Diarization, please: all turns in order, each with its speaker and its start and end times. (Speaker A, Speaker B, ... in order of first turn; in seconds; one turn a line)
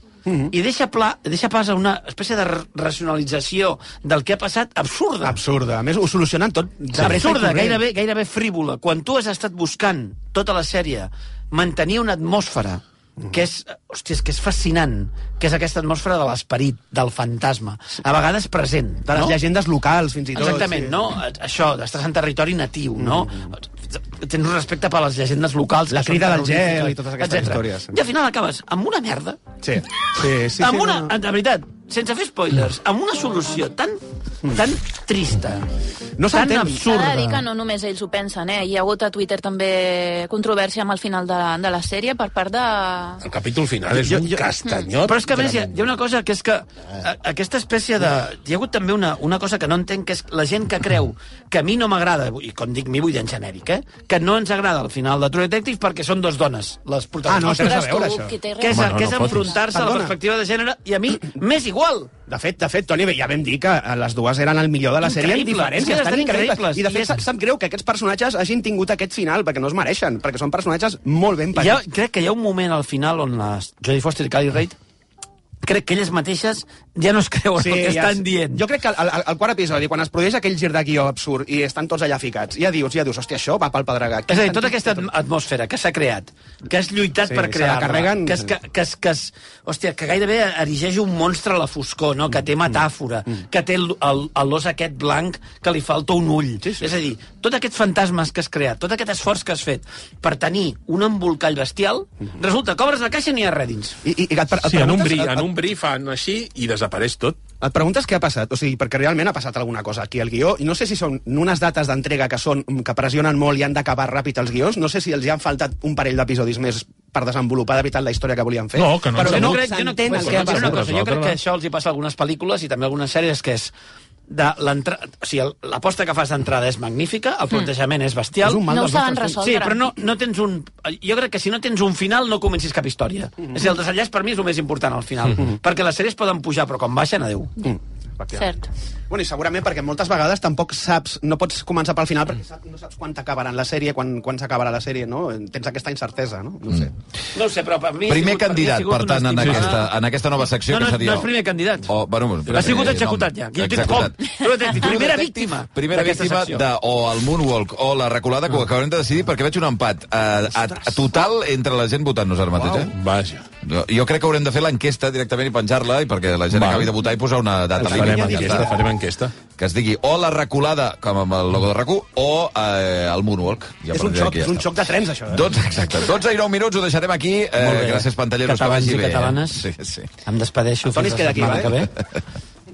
Speaker A: 0.2-0.5
Speaker B: 0.5-5.4
Speaker A: 5.2-7.8
Speaker B: 6.9-19.4
Speaker A: 19.1-21.0
Speaker B: 20.3-29.4
Speaker A: 23.0-23.5
Speaker A: 25.9-28.0
Speaker A: 29.6-31.1
Speaker B: 30.6-35.6
Speaker A: 36.2-36.8
Speaker B: 36.3-37.4
Speaker C: 36.8-43.2
Speaker D: 43.2-45.7
Speaker A: 43.9-44.5
Speaker B: 45.0-62.1
Speaker A: 57.2-58.3
Speaker C: 57.9-59.6
Speaker D: 58.7-59.6
Speaker A: 59.7-60.1
Speaker A: 62.3-71.8
Speaker B: 65.0-67.2
Speaker B: 71.5-74.8
Speaker B: 75.6-78.6
Speaker A: 77.6-85.1
Speaker B: 84.3-104.0
Speaker A: 87.2-88.5
Speaker A: 96.6-96.9
Speaker A: 104.0-105.5
Speaker D: 104.6-107.4
Speaker A: 107.6-120.9
Speaker D: 118.8-121.4
Speaker B: 119.2-123.7
Speaker B: 124.3-128.8
Speaker A: 128.4-129.4
Speaker C: 128.6-129.9
Speaker B: 129.3-137.5
Speaker A: 137.6-138.5
Speaker C: 138.3-138.7
Speaker A: 139.1-146.9
Speaker B: 147.3-149.8
Speaker E: 148.1-162.9
Speaker D: 149.4-149.7
Speaker B: 150.7-151.9
Speaker D: 152.5-153.0
Speaker B: 152.5-156.7
Speaker D: 162.6-163.4
Speaker E: 163.6-168.8
Speaker D: 166.5-166.9
Speaker D: 167.8-169.3
Speaker A: 167.9-168.7
Speaker E: 169.6-174.7
Speaker A: 173.9-175.5
Speaker E: 175.3-180.1
Speaker B: 177.6-179.7
Speaker B: 180.2-181.9
Speaker A: 180.9-181.9